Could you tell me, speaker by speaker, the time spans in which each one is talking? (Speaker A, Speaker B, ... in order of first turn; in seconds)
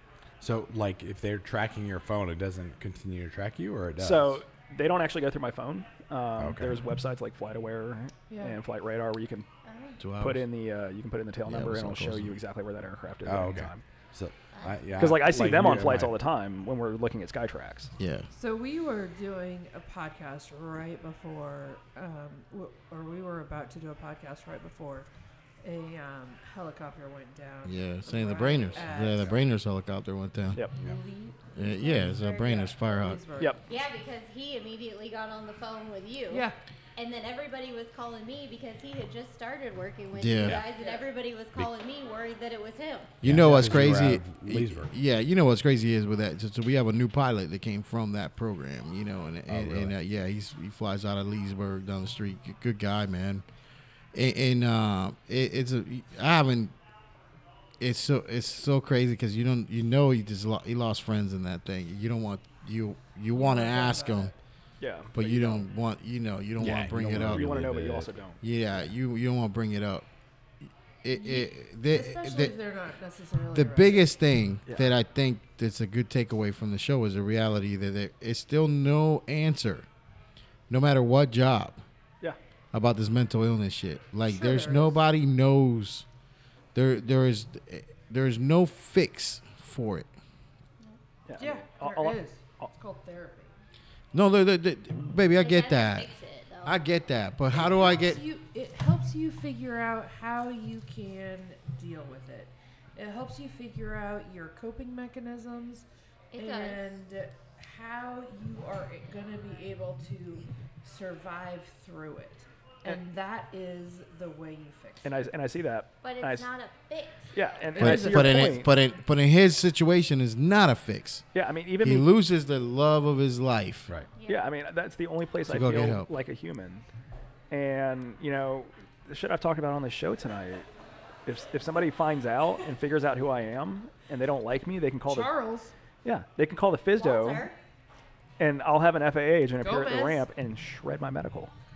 Speaker A: 0.4-4.4, 6.4-6.8, 13.2-16.2, 43.2-44.9, 49.5-49.9, 66.6-68.1
Speaker B: 4.0-9.4, 10.2-13.8, 15.0-17.9, 64.8-65.6, 66.7-68.4, 91.3-92.7, 115.0-116.5, 117.3-118.7, 121.3-122.1, 124.2-126.8, 127.5-130.7, 131.2-135.3, 136.0-137.5, 138.4-141.5
Speaker C: 8.3-8.6, 18.3-25.1, 25.6-29.4, 30.8-33.6, 36.3-36.5, 40.6-41.0, 63.3-64.3, 71.1-74.1, 84.2-85.0, 91.4-93.5, 97.5-105.8, 106.4-115.2, 117.7-118.7, 135.1-135.7, 139.6-140.2
Speaker D: 9.6-10.0, 14.5-14.8, 33.7-43.1, 95.4-96.8, 106.3-106.9, 116.0-117.3, 124.1-124.5, 136.9-137.6
Speaker E: 10.0-10.5, 11.4-12.4, 18.0-18.3, 27.6-30.6, 31.5-33.2, 40.1-40.6, 43.2-53.4, 54.1-56.7, 57.8-64.3, 65.1-67.8, 68.4-70.1, 70.7-72.5, 73.5-79.9, 80.7-81.8, 82.7-86.0, 86.7-90.1, 94.1-96.1, 96.6-98.2, 117.8-121.2, 121.8-123.9, 125.4-126.1